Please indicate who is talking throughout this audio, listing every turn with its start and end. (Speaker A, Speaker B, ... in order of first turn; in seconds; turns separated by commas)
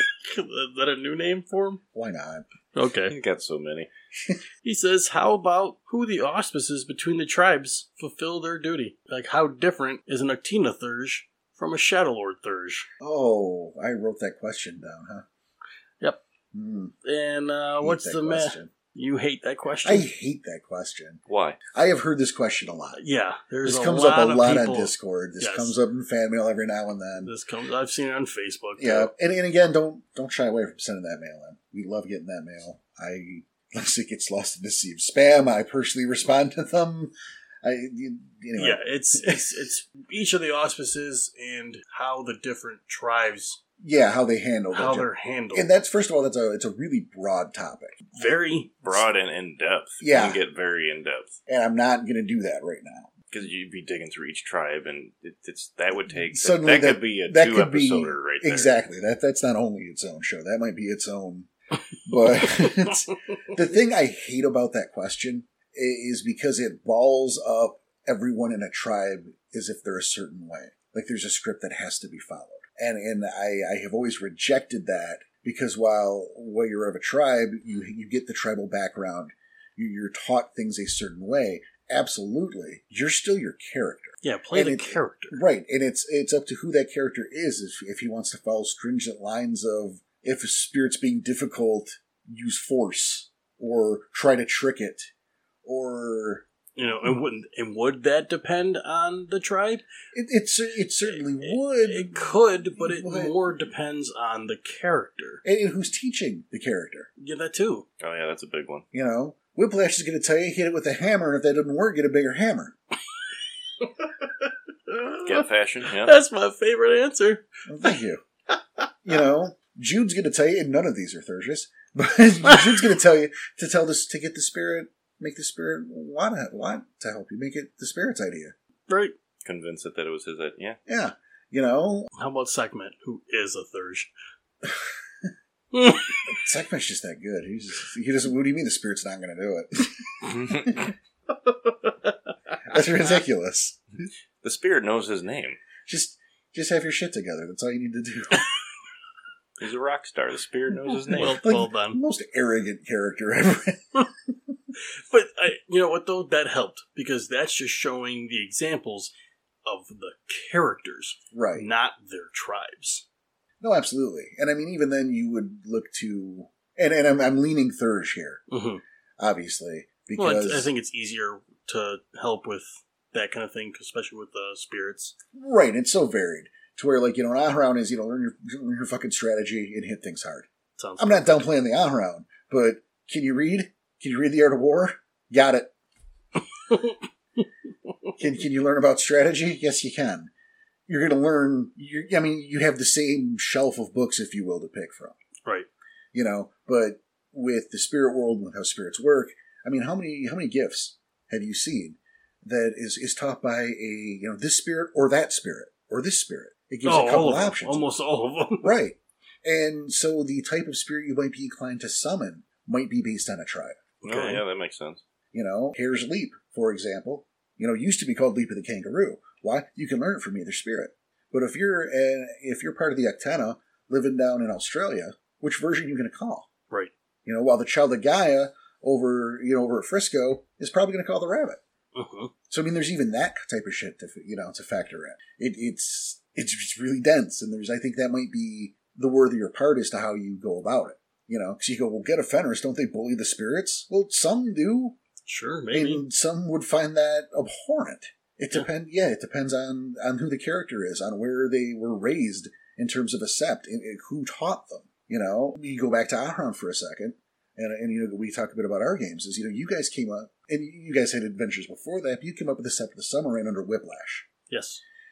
Speaker A: 0.2-1.8, Speaker B: 1.9-2.4, Speaker A: 2.7-3.1, Speaker C: 3.1-3.9, Speaker A: 4.6-12.8, Speaker B: 13.0-15.2, Speaker B: 16.5-16.9, Speaker A: 17.0-20.1, Speaker B: 17.8-18.7, Speaker B: 19.8-21.2, Speaker C: 21.3-21.6, Speaker B: 21.7-23.0, Speaker A: 22.9-25.7, Speaker B: 23.6-27.3, Speaker A: 27.2-29.1, Speaker B: 28.8-39.6, Speaker A: 38.5-43.6, Speaker B: 43.8-48.3, Speaker A: 44.7-45.7, Speaker A: 48.1-49.1, Speaker C: 48.9-51.4, Speaker B: 50.0-50.4, Speaker B: 51.5-53.1, Speaker C: 53.3-58.7, Speaker B: 56.3-61.5, Speaker B: 62.0-95.1, Speaker A: 84.2-85.4, Speaker B: 95.6-96.4, Speaker A: 96.8-99.8, Speaker B: 100.1-103.4, Speaker A: 101.4-105.4, Speaker B: 105.4-107.1, Speaker A: 107.2-107.8, Speaker C: 108.0-108.8, Speaker B: 108.9-112.7, Speaker A: 114.9-117.5, Speaker C: 115.2-116.2, Speaker B: 117.7-118.2, Speaker B: 119.0-128.5, Speaker A: 128.9-129.1, Speaker C: 129.4-130.8, Speaker B: 130.9-132.1, Speaker A: 132.2-134.1, Speaker B: 134.7-135.3, Speaker A: 135.7-136.2, Speaker B: 136.3-140.9, Speaker C: 140.2-140.9, Speaker A: 141.5-142.1, Speaker B: 142.7-143.8, Speaker C: 144.4-145.6, Speaker B: 145.8-148.5, Speaker C: 149.6-151.4, Speaker A: 151.1-152.0, Speaker B: 151.1-154.1, Speaker A: 154.8-159.1, Speaker A: 159.7-163.0, Speaker B: 161.3-161.7, Speaker B: 163.6-168.4, Speaker A: 168.5-168.8, Speaker B: 169.2-170.7, Speaker A: 170.2-175.1, Speaker B: 175.3-180.5, Speaker A: 180.8-181.5, Speaker B: 181.0-185.7, Speaker A: 186.7-186.9, Speaker B: 188.2-190.3, Speaker B: 190.9-195.1, Speaker B: 196.1-207.9, Speaker A: 206.8-208.7, Speaker B: 208.6-213.8, Speaker A: 214.0-214.4, Speaker C: 214.0-215.0, Speaker B: 215.3-226.5, Speaker B: 227.2-231.6, Speaker A: 231.9-232.3, Speaker B: 232.5-245.0, Speaker A: 245.2-246.0, Speaker B: 245.7-264.2, Speaker A: 264.5-264.8